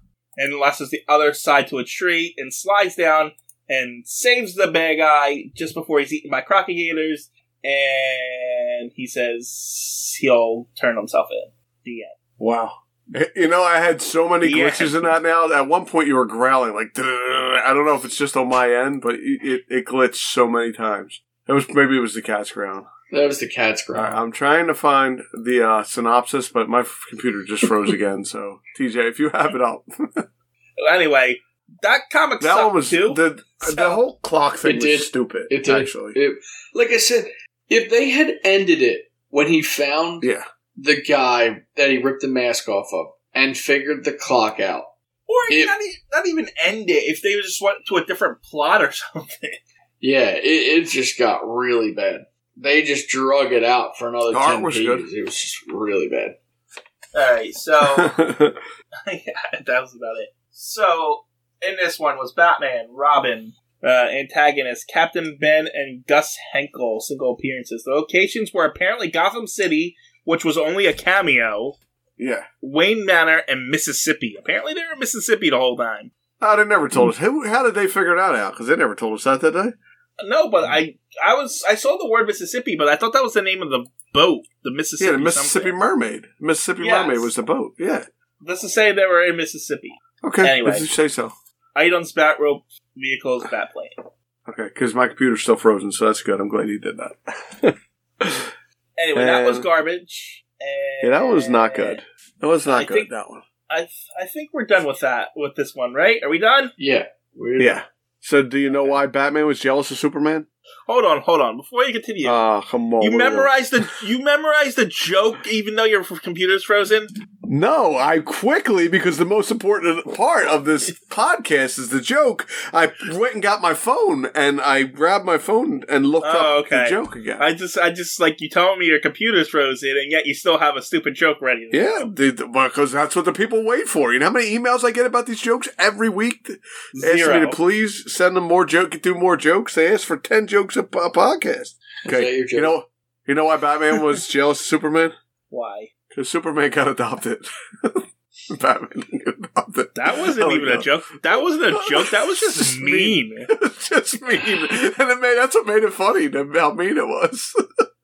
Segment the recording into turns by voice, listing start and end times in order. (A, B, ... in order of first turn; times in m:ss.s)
0:00.4-0:12.1 A
0:12.4-0:22.9 B
0:14.4-0:15.1 A
0:23.1-0:24.2 C
0:24.0-0:30.3 B
0:30.8-0:34.0 A
0:32.4-0:36.2 B
0:34.6-0:44.9 C
0:45.3-0:49.6 A
0:50.0-0:56.4 C
0:54.3-0:55.1 B
0:57.1-0:58.2 A
0:57.8-0:58.6 B
0:59.1-1:11.8 A
1:12.2-1:12.5 B
1:12.6-1:16.1 A
1:16.4-1:19.7 B
1:20.2-1:25.7 A
1:25.0-1:28.1 B
1:26.8-1:27.3 A
1:28.4-1:30.9 A
1:30.2-1:31.3 B
1:31.8-1:34.0 A
1:34.5-1:38.5 B
1:39.0-1:42.0 A
1:39.2-1:39.7 B
1:41.0-1:43.4 B
1:42.7-1:43.1 A
1:43.7-1:46.7 A
1:46.8-1:47.8 C
1:47.6-1:50.5 B
1:50.9-1:52.4 A
1:52.2-1:53.8 B
1:53.0-1:57.1 A
1:57.5-2:07.4 B
2:06.2-2:12.1 A
2:11.7-2:25.2 B
2:17.0-2:17.6 A
2:22.0-2:22.7 C
2:25.5-2:25.9 A
2:26.1-2:37.6 B
2:30.0-2:33.5 A